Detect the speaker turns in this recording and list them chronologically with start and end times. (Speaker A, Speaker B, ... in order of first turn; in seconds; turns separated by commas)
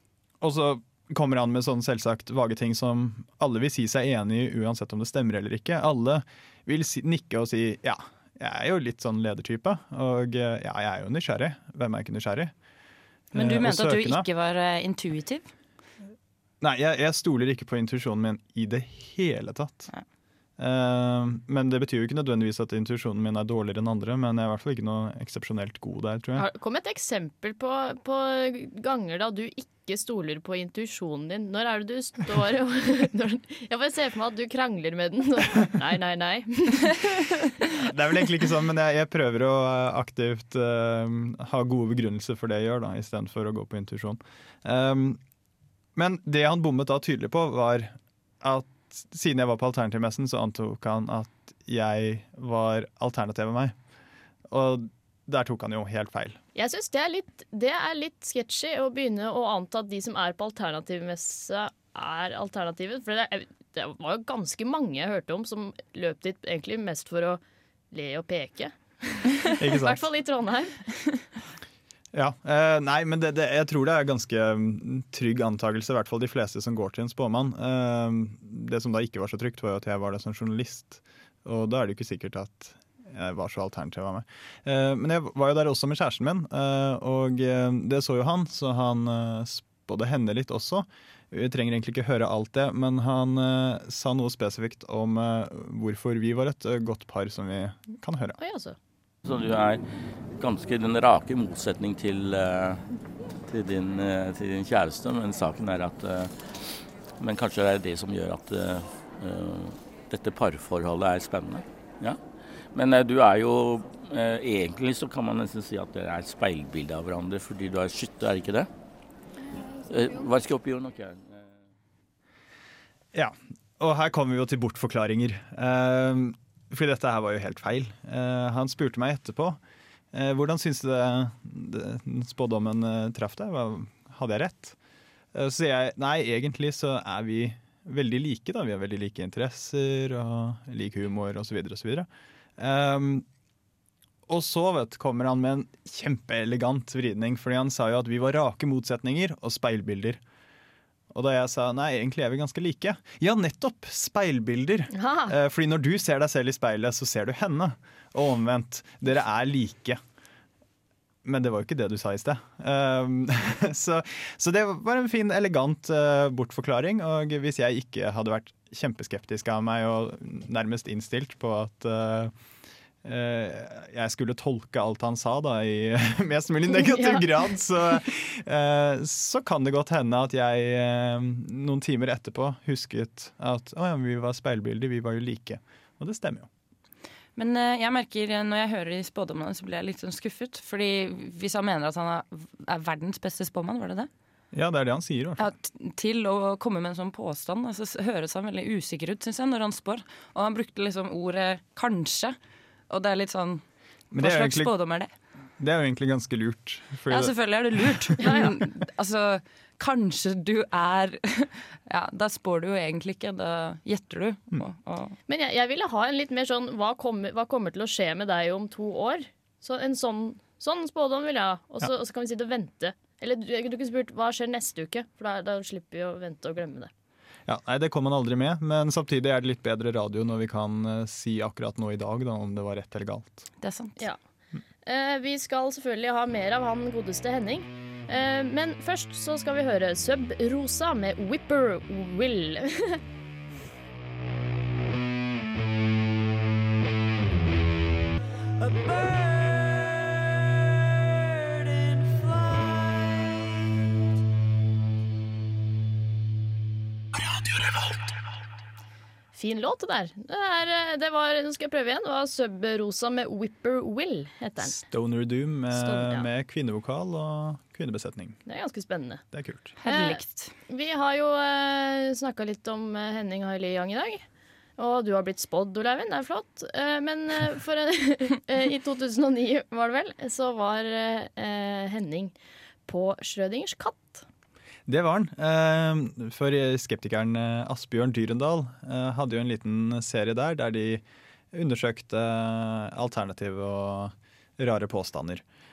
Speaker A: 0.4-12.5, Speaker A: 13.3-14.3, Speaker B: 13.3-15.5, Speaker A: 16.6-19.9, Speaker A: 20.6-26.5, Speaker C: 26.4-37.1, Speaker A: 37.8-45.2, Speaker A: 46.0-53.8, Speaker A: 54.5-56.4, Speaker C: 56.5-67.4, Speaker C: 67.9-70.8, Speaker A: 69.6-70.0, Speaker A: 72.1-98.4, Speaker C: 98.4-98.8, Speaker D: 99.2-99.8, Speaker D: 100.4-102.9, Speaker D: 103.5-106.3, Speaker D: 107.2-112.2, Speaker D: 112.7-118.7, Speaker D: 119.8-121.5, Speaker A: 123.1-129.6, Speaker A: 130.1-134.8, Speaker A: 135.3-143.3, Speaker A: 144.3-150.2, Speaker A: 151.1-160.0, Speaker C: 154.9-155.3, Speaker A: 161.2-172.3, Speaker A: 173.0-186.5, Speaker C: 176.9-177.2, Speaker B: 187.4-194.1, Speaker A: 194.5-195.5, Speaker B: 195.4-202.3, Speaker B: 202.9-203.6, Speaker A: 204.1-204.7, Speaker B: 204.2-205.1, Speaker A: 205.6-208.3, Speaker B: 207.1-215.2, Speaker C: 208.2-208.5, Speaker C: 215.3-226.9, Speaker A: 227.5-233.5, Speaker B: 233.6-234.0, Speaker C: 234.8-243.0, Speaker A: 248.7-249.5, Speaker A: 251.9-252.6, Speaker C: 259.3-264.8, Speaker A: 264.6-268.4, Speaker C: 265.7-266.3, Speaker C: 268.5-269.2, Speaker A: 269.3-269.8, Speaker B: 269.8-270.5, Speaker C: 269.8-274.2, Speaker C: 274.8-282.3, Speaker C: 282.9-284.3, Speaker A: 284.9-295.4